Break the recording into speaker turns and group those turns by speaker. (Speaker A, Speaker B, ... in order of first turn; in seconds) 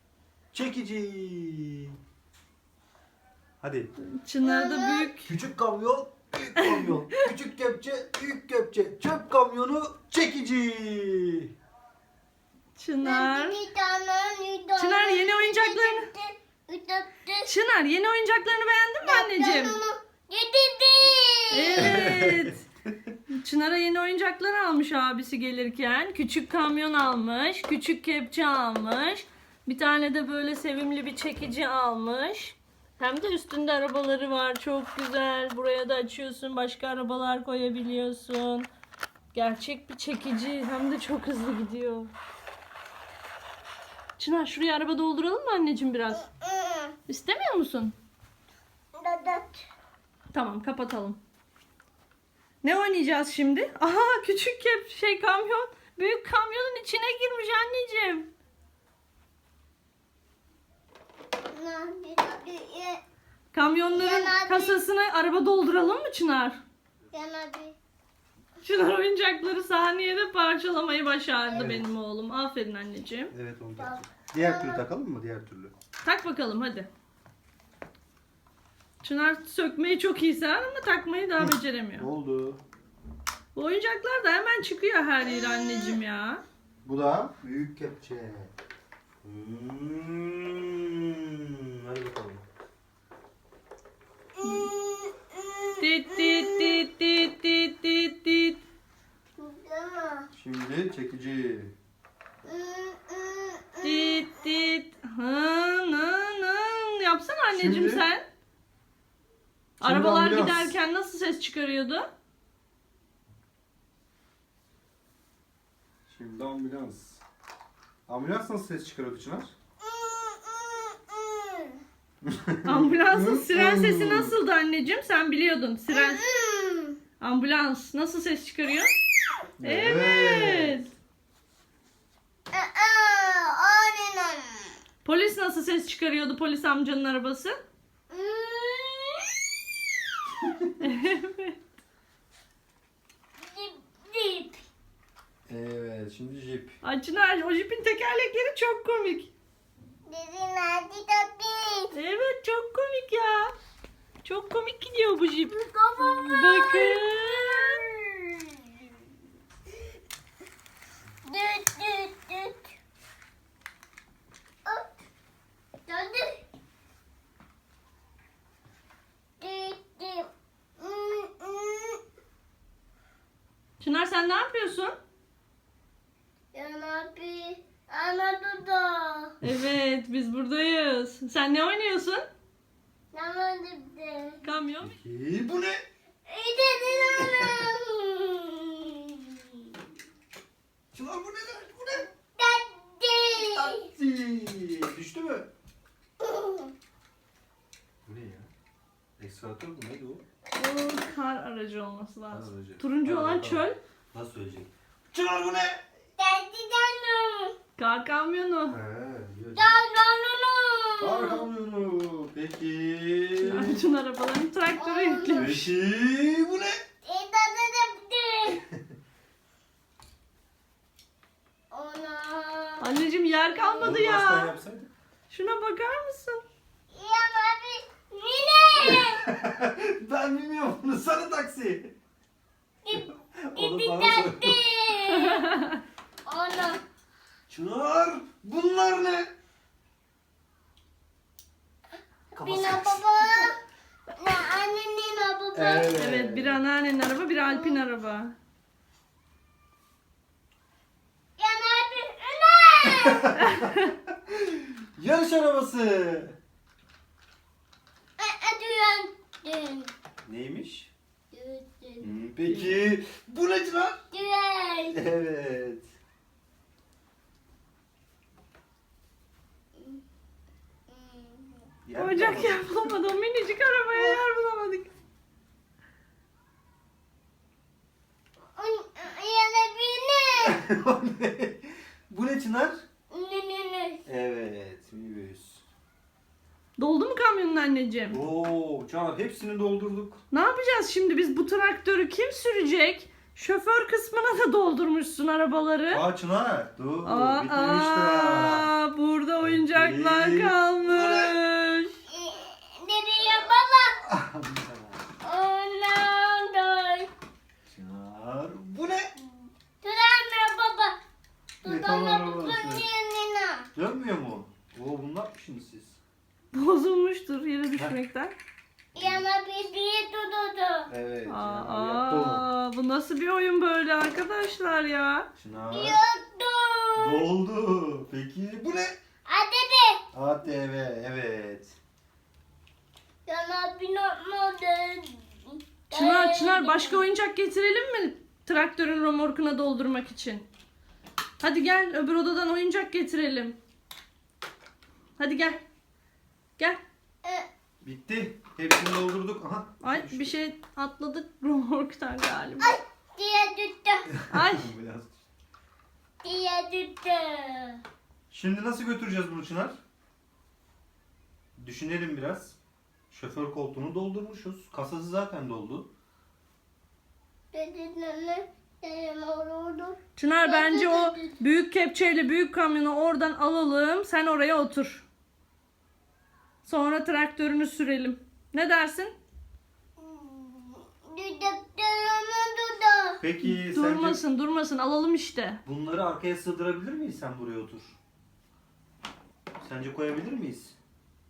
Speaker A: 0.5-1.9, 3.6-3.9, 5.2-11.5, 21.8-22.5, 71.5-71.8, 73.3-75.7, 81.4-82.6, 86.8-88.5, 89.2-92.4, 100.3-101.7, 107.5-108.0, 109.8-110.8, 116.1-117.2, 118.1-119.5, 122.2-124.3, 129.6-130.8, 145.5-146.7, 184.8-185.8, 187.1-187.7, 190.9-192.1, 193.3-195.5, 198.1-198.5, 199.2-200.2, 202.3-205.8, 208.7-209.8, 211.0-213.8, 215.3-216.8, 223.8-224.9, 228.8-231.9, 232.9-234.6, 237.5-239.3, 242.3-243.5, 245.5-246.6, 253.0-256.4, 260.2-260.9, 262.0-264.0, 264.9-265.9, 271.8-272.7, 280.4-282.8, 284.1-285.6, 288.1-290.2, 295.9-298.7, 299.4-301.3, 304.1-305.0, 307.6-309.1, 311.6-312.9, 313.7-316.0, 318.9-319.2, 320.9-322.4, 325.4-326.0, 326.9-328.9, 330.1-331.8, 347.8-350.3, 354.1-355.2, 358.3-359.8, 361.6-362.6, 363.1-365.9, 383.2-384.2, 385.6-387.9, 389.6-390.8
Speaker B: 4.0-5.3, 6.6-7.2, 12.8-13.6, 14.8-16.1, 17.4-19.8, 21.5-22.6, 23.3-38.7, 39.3-42.1, 44.2-46.2, 47.1-47.9, 50.3-51.2, 52.6-58.3, 63.5-66.6, 68.6-73.3, 76.0-76.9, 79.0-82.1, 83.5-86.4, 95.8-98.6, 103.8-108.2, 109.8-112.1, 122.7-126.2, 127.2-128.9, 129.6-130.9, 135.0-137.6, 140.8-141.6, 146.8-149.3, 151.9-153.5, 154.2-157.8, 173.8-174.9, 179.4-182.2, 184.4-184.9, 200.5-203.8, 207.8-208.8, 213.4-215.7, 222.8-224.6, 225.3-226.4, 235.2-235.8, 245.9-248.3, 253.5-253.8, 262.4-262.9, 272.0-274.9, 286.8-288.2, 290.3-296.0, 297.0-301.9, 316.5-318.3, 321.3-325.3, 335.9-340.5, 341.4-343.6, 345.2-345.6, 349.8-352.8, 354.3-354.7, 370.2-375.1, 376.6-379.1, 383.4-385.6
Speaker C: 4.4-5.1, 13.0-17.5, 19.0-22.1, 46.1-47.0, 48.9-49.6, 61.5-63.0, 63.9-64.8, 67.1-67.8, 71.5-71.8, 73.8-74.8, 85.3-86.0, 94.4-96.8, 99.4-100.3, 102.4-104.2, 119.8-121.8, 125.9-127.0, 132.5-134.8, 138.1-139.4, 143.4-144.7, 150.1-151.9, 155.5-158.5, 161.2-162.7, 165.8-166.4, 169.4-172.0, 176.5-179.3, 183.1-184.4, 186.2-189.6, 192.3-193.9, 196.2-196.7, 206.2-207.5, 209.5-211.4, 214.8-215.5, 217.0-218.6, 221.7-222.9, 223.5-223.9, 226.9-229.2, 232.8-235.5, 236.2-236.8, 242.4-243.6, 244.2-245.9, 247.4-247.8, 251.4-253.4, 258.2-259.9, 261.3-262.1, 264.1-265.0, 269.8-270.0, 270.9-271.7, 278.5-280.6, 283.1-284.0, 302.1-304.0, 305.2-307.1, 309.8-311.0, 311.6-313.7, 318.9-320.9, 325.7-327.3, 329.2-330.0, 333.2-337.0, 352.6-354.1, 356.2-357.8, 367.5-371.4, 380.0-383.2